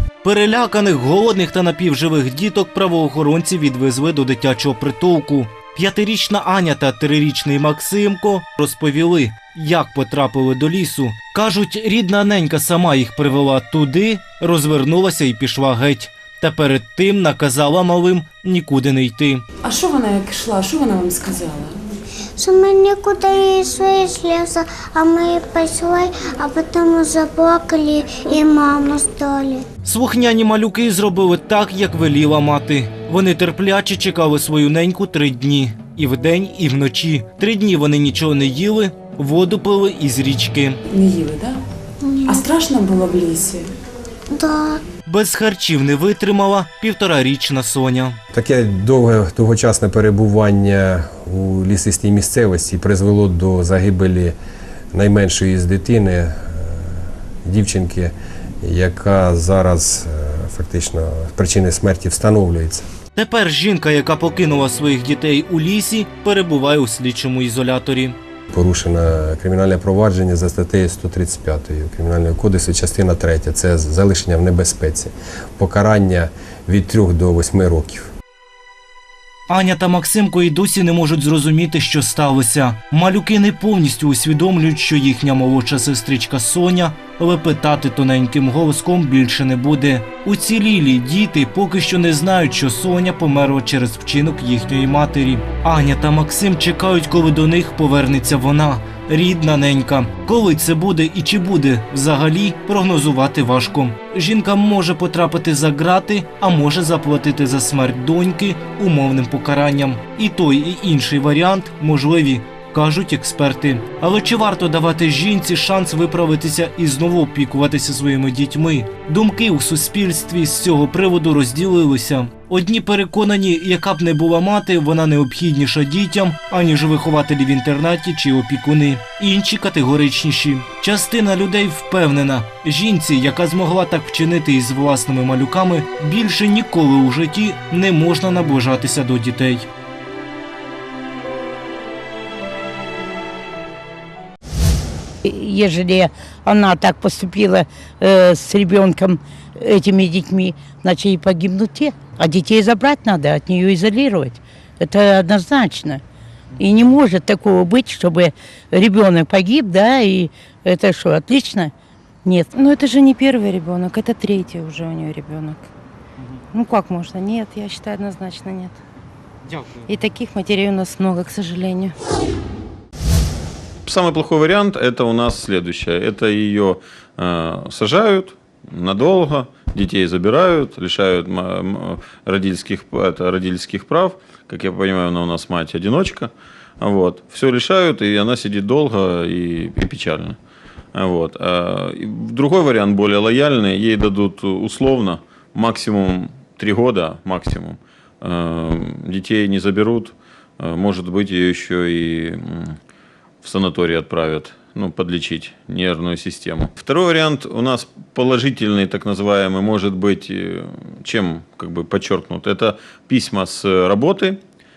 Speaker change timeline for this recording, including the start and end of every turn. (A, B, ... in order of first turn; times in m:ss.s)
0:00.2-0:19.4 A
0:19.6-0:21.8 B
0:22.4-0:29.6 C
0:29.8-0:40.8 A
0:40.9-0:41.6 B
0:42.0-0:42.5 C
0:42.3-0:43.7 B
0:44.3-0:44.8 C
0:45.0-0:48.2 A
0:48.3-0:54.4 D
0:54.9-1:02.8 D
1:03.2-1:08.2 A
1:08.5-1:18.1 D
1:19.5-2:19.7 A
2:25.2-2:36.0 E
2:36.6-2:41.7 E
2:42.2-2:42.5 E
2:42.5-2:45.7 F
2:46.5-2:48.8 F
2:49.9-2:52.0 F
2:53.8-3:10.4 G
3:10.9-3:22.8 G
3:23.4-3:34.4 G